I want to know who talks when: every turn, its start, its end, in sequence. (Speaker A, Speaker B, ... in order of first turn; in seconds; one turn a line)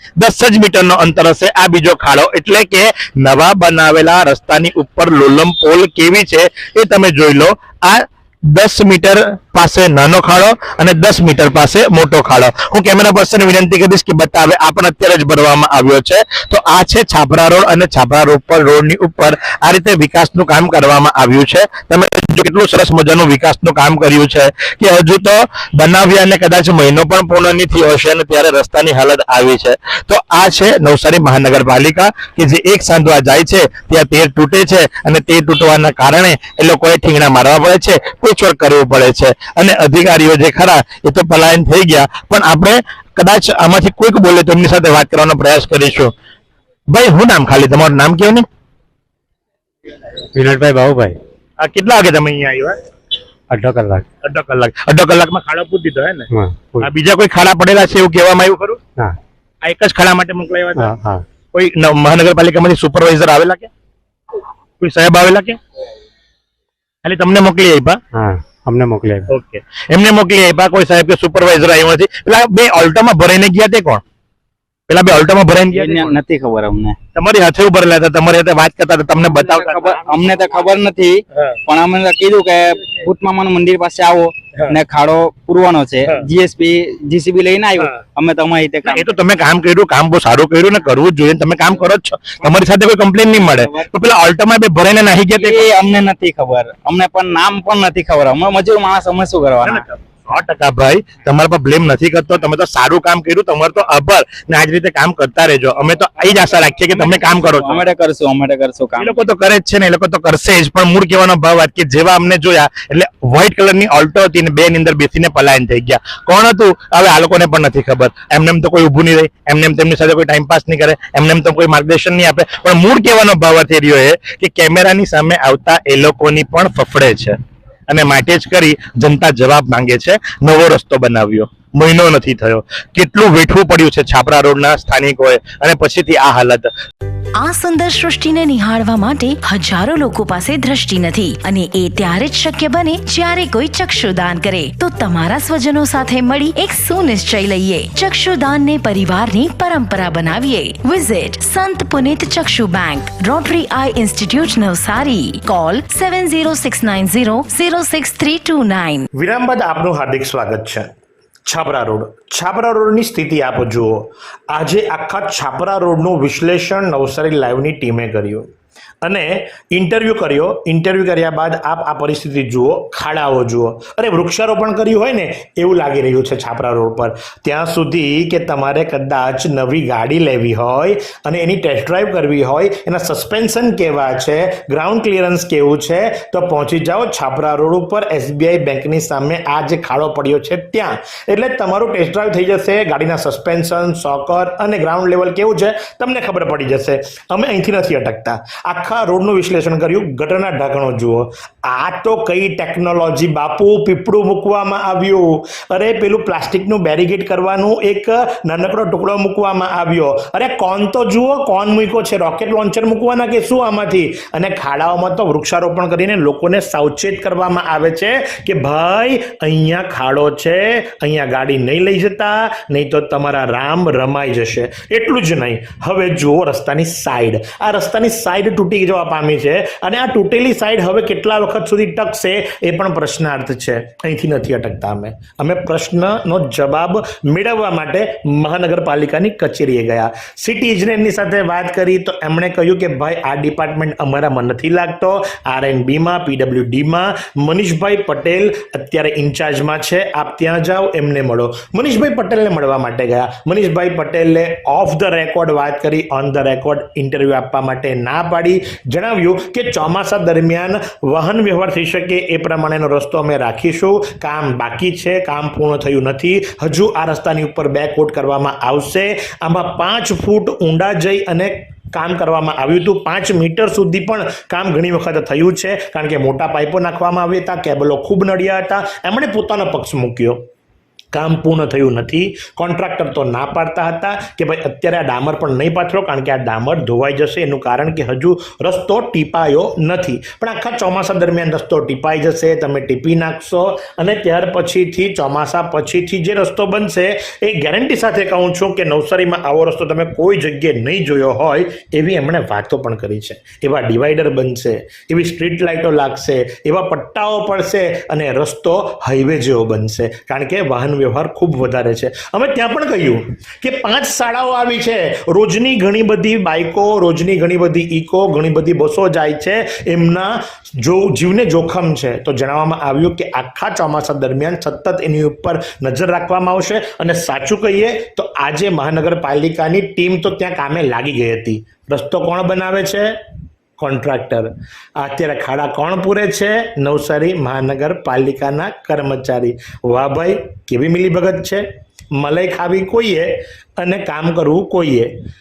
Speaker A: 0.2-46.1
Speaker A: 46.9-48.5
Speaker B: 50.4-51.2
Speaker A: 51.6-52.8
Speaker B: 53.5-54.0
Speaker A: 54.2-56.3
Speaker B: 56.3-56.9
Speaker A: 56.8-58.8
Speaker A: 59.6-60.9
Speaker B: 60.8-61.2
Speaker A: 61.5-63.7
Speaker A: 64.8-65.6
Speaker A: 67.0-68.0
Speaker B: 68.2-69.3
Speaker A: 69.3-74.0
Speaker A: 74.9-76.1
Speaker C: 75.7-77.0
Speaker A: 77.2-80.2
Speaker C: 79.2-89.1
Speaker A: 88.8-95.7
Speaker C: 93.3-93.9
Speaker C: 95.3-99.9
Speaker A: 99.6-107.8
Speaker C: 106.8-109.2
Speaker A: 109.0-127.4
Speaker A: 127.9-136.7
Speaker D: 137.4-159.1
Speaker E: 159.2-160.9
Speaker E: 161.5-168.5
Speaker E: 169.0-280.4
Speaker E: 281.1-333.2
Speaker E: 333.8-345.1